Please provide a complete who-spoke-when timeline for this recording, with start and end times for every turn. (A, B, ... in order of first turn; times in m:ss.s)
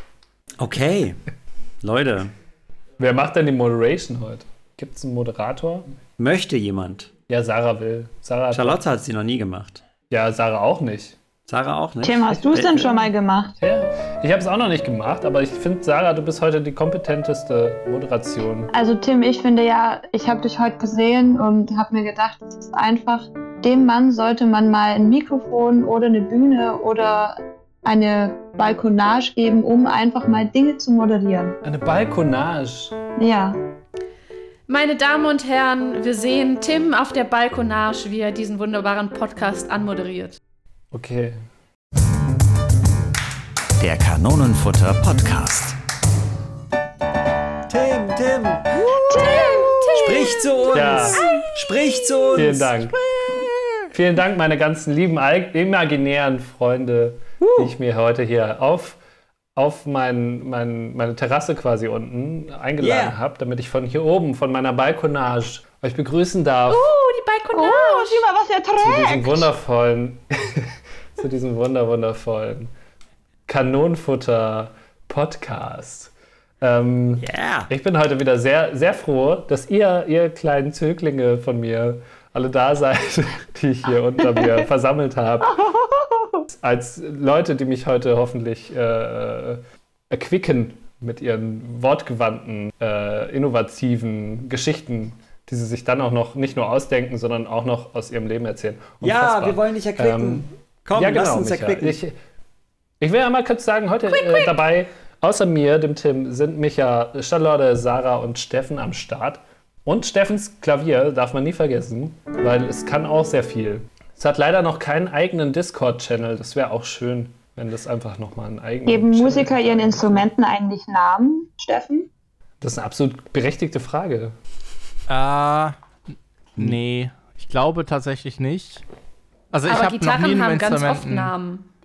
0:00.6-0:01.2 A
0:01.8-0:02.3 A
0:03.0-0:05.9 B
0:06.2-0:07.1 A
0:07.3-0:08.8 B
0:08.5-0:09.8 A
0:10.1-0:11.2 B
0:11.5-0:12.8 A
0:12.0-0:13.6 C
0:12.3-0:13.1 B
0:13.6-0:18.7 B
0:18.7-0:31.5 C
0:31.6-0:32.9 B
0:33.2-0:33.6 C
0:34.7-0:40.4 D
0:40.9-0:41.4 B
0:43.8-0:45.8 A
0:47.7-0:48.9 A
0:48.9-0:50.1 C
0:48.9-0:52.3 D
0:49.9-0:53.5 A
0:50.7-0:51.3 B
0:52.3-0:53.0 B
0:53.9-0:59.0 B
0:57.4-0:57.7 A
0:59.5-1:06.9 B
1:02.8-1:03.2 A
1:06.7-1:08.2 D
1:07.5-1:09.5 C
1:08.8-1:12.7 B
1:13.5-1:25.6 B
1:17.2-1:17.7 A
1:25.6-1:26.4 C
1:26.5-1:42.1 B
1:39.0-1:42.0 A
1:43.0-2:00.2 B
1:44.1-1:44.5 D
1:58.8-2:02.1 C
2:02.6-2:04.3 B
2:05.1-2:05.8 E
2:06.6-2:08.8 E
2:09.5-2:11.3 E
2:09.7-2:11.6 D